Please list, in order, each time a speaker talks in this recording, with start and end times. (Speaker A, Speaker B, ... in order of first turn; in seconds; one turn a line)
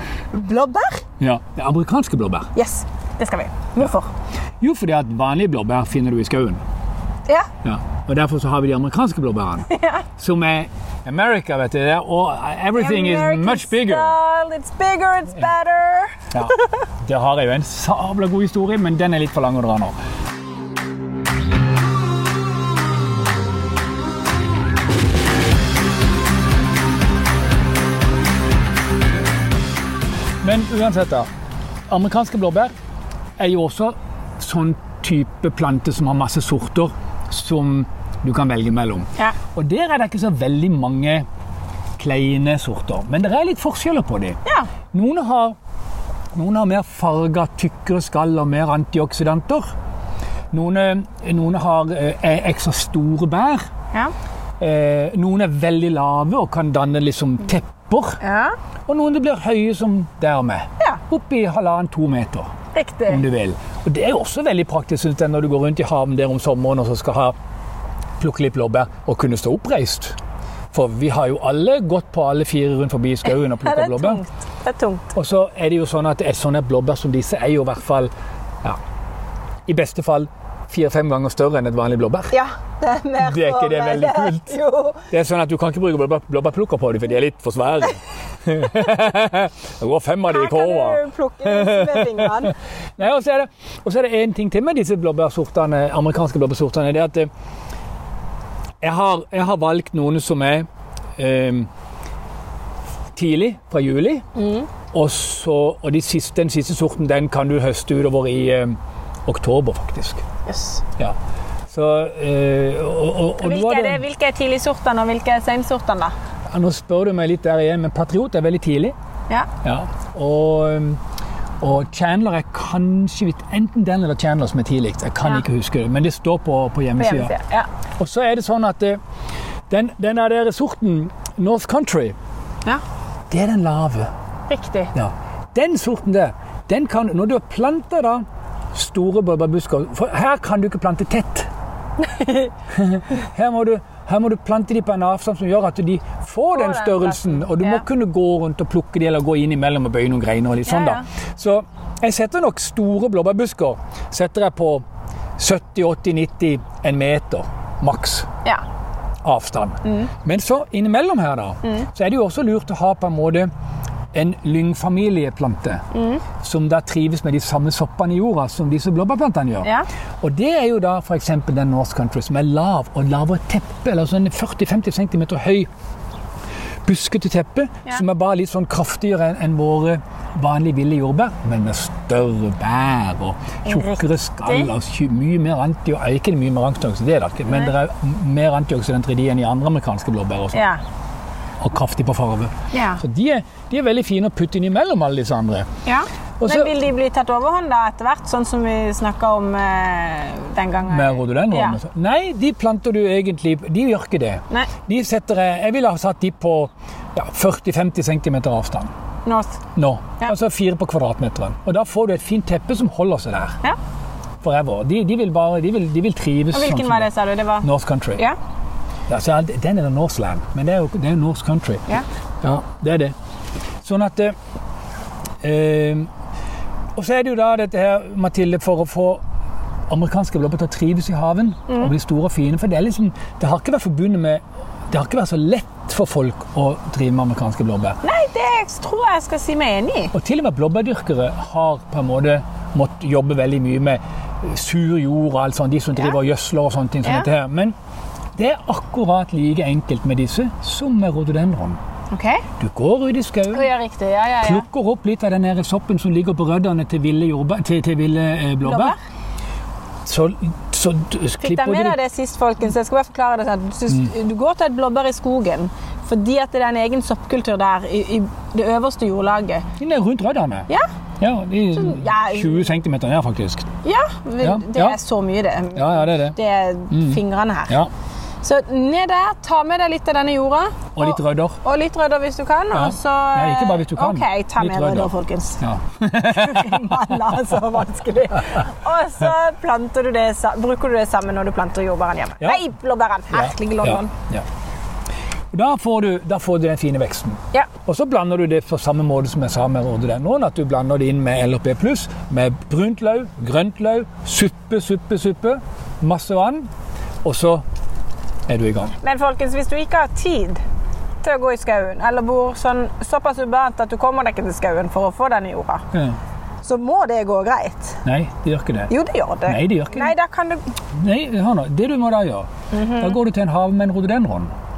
Speaker A: 0.3-1.0
Speaker B: 1.2-2.5
Speaker A: 2.5-4.1
Speaker B: 4.6-6.6
Speaker B: 7.6-14.1
Speaker A: 9.7-10.0
Speaker A: 12.7-16.6
Speaker B: 16.3-19.9
Speaker B: 30.4-31.3
Speaker B: 31.9-32.7
Speaker B: 33.4-41.2
Speaker B: 42.0-44.4
Speaker B: 44.9-45.5
Speaker B: 46.3-49.7
Speaker B: 50.5-53.6
Speaker B: 54.6-58.2
Speaker A: 58.2-58.5
Speaker B: 58.9-62.5
Speaker A: 62.7-63.2
Speaker B: 63.1-67.3
Speaker B: 68.2-70.2
Speaker B: 70.7-74.2
Speaker A: 73.2-75.1
Speaker B: 75.1-78.1
Speaker B: 79.7-82.3
Speaker A: 82.3-85.0
Speaker B: 83.2-84.5
Speaker B: 85.1-97.3
Speaker A: 90.2-92.5
Speaker B: 98.8-101.7
Speaker B: 103.1-104.2
Speaker A: 104.3-104.7
Speaker B: 104.9-110.2
Speaker A: 110.5-110.8
Speaker B: 111.7-114.0
Speaker A: 113.4-116.1
Speaker B: 116.5-118.9
Speaker B: 119.6-121.0
Speaker B: 121.6-127.3
Speaker A: 127.0-127.7
Speaker B: 128.0-129.0
Speaker B: 129.7-132.1
Speaker B: 133.3-134.1
Speaker A: 134.5-134.9
Speaker B: 134.9-141.5
Speaker A: 142.0-142.5
Speaker B: 142.7-154.8
Speaker A: 146.5-147.8
Speaker A: 150.7-151.0
Speaker B: 155.4-158.3
Speaker B: 159.2-163.5
Speaker B: 164.1-165.8
Speaker A: 165.9-166.2
Speaker B: 166.4-175.7
Speaker B: 176.8-190.6
Speaker A: 183.7-184.7
Speaker A: 190.5-190.8
Speaker B: 191.6-195.7
Speaker A: 192.7-193.0
Speaker A: 195.8-201.8
Speaker B: 196.4-196.7
Speaker B: 200.9-208.9
Speaker A: 209.2-209.6
Speaker B: 209.8-213.6
Speaker B: 214.4-217.1
Speaker A: 216.5-218.3
Speaker B: 217.6-218.2
Speaker B: 219.1-221.9
Speaker B: 222.4-223.1
Speaker B: 223.8-224.3
Speaker B: 225.4-226.1
Speaker B: 226.9-229.2
Speaker B: 229.9-238.0
Speaker A: 238.0-240.1
Speaker B: 240.1-247.7
Speaker A: 247.0-247.3
Speaker B: 248.3-251.8
Speaker A: 252.1-252.4
Speaker B: 252.6-253.7
Speaker A: 253.5-254.6
Speaker B: 254.4-258.9
Speaker A: 258.6-259.0
Speaker B: 260.0-262.0
Speaker A: 261.4-269.6
Speaker B: 269.8-273.6
Speaker A: 271.7-272.7
Speaker A: 273.8-277.8
Speaker B: 274.4-275.0
Speaker B: 275.7-276.4
Speaker B: 276.9-277.9
Speaker A: 278.4-285.6
Speaker B: 280.9-281.6
Speaker B: 282.7-287.2
Speaker A: 286.2-294.1
Speaker B: 293.3-294.4
Speaker B: 295.5-306.7
Speaker B: 307.2-307.6
Speaker B: 308.5-308.9
Speaker A: 309.0-310.6
Speaker A: 311.2-315.8
Speaker B: 315.9-316.2
Speaker A: 316.6-318.0
Speaker B: 318.0-318.9
Speaker A: 318.9-320.7
Speaker B: 319.4-320.1
Speaker B: 320.9-324.5
Speaker A: 322.7-323.2